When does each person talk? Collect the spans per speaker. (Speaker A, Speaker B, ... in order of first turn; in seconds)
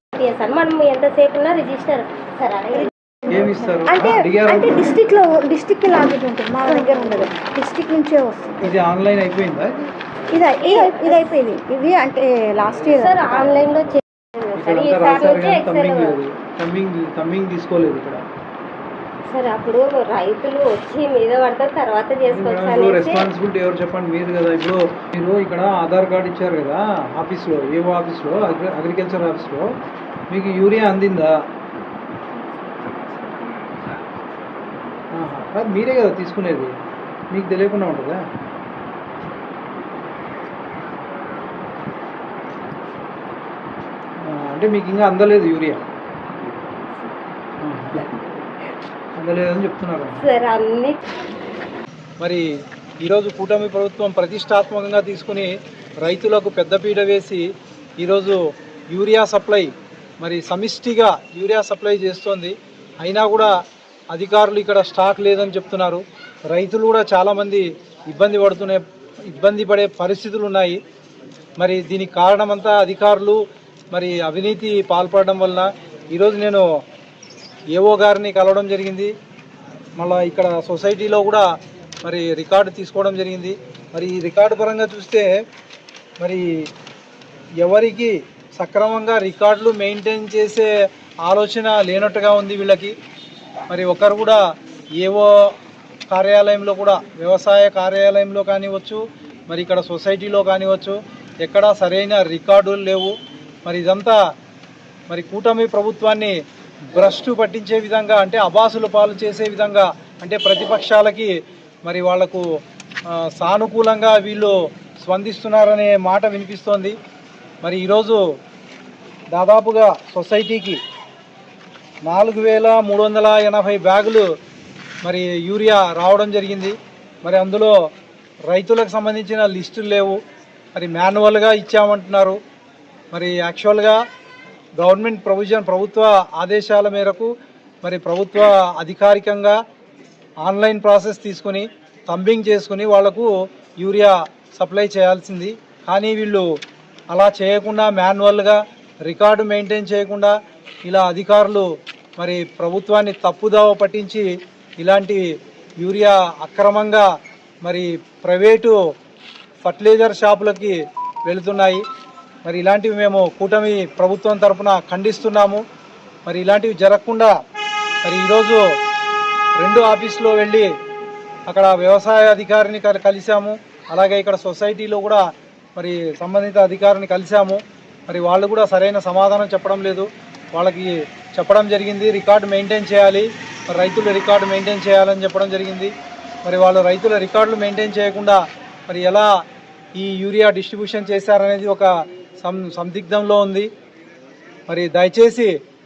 Speaker A: 0.2-2.9, 10.6-11.3, 12.9-16.2, 19.3-23.3, 50.2-51.0
Speaker B: 2.8-8.7, 10.3-13.5
Speaker C: 3.3-4.9, 8.6-9.7, 14.6-18.2, 22.3-29.7, 30.3-31.3, 35.1-36.8, 37.3-38.3, 44.2-45.8, 47.6-48.1, 49.2-50.2, 52.2-52.5, 53.0-57.5, 58.0-58.4, 58.9-63.5, 64.1-70.8, 71.6-73.4, 73.9-76.6, 77.7-79.1, 80.0-81.5, 82.0-85.3, 86.2-86.5, 87.6-90.7, 91.2-92.9, 93.7-94.4, 95.0-95.5, 96.1-103.1, 103.6-104.2, 105.1-106.3, 106.9-111.3, 111.8-112.4, 113.1-117.0, 117.6-118.2, 119.3-120.8, 122.0-124.2, 125.0-127.7, 128.5-130.2, 130.8-132.4, 133.1-134.0, 134.8-137.3, 137.8-139.6, 140.4-146.4, 147.1-150.3, 150.8-151.7, 152.2-154.2, 154.8-155.2, 155.8-157.1, 157.6-158.8, 159.6-161.8, 162.4-165.6, 166.2-167.3, 168.0-168.6, 169.6-170.7, 171.5-175.2, 175.8-185.9, 186.4-189.3, 190.0-191.9, 192.4-193.7, 194.7-195.5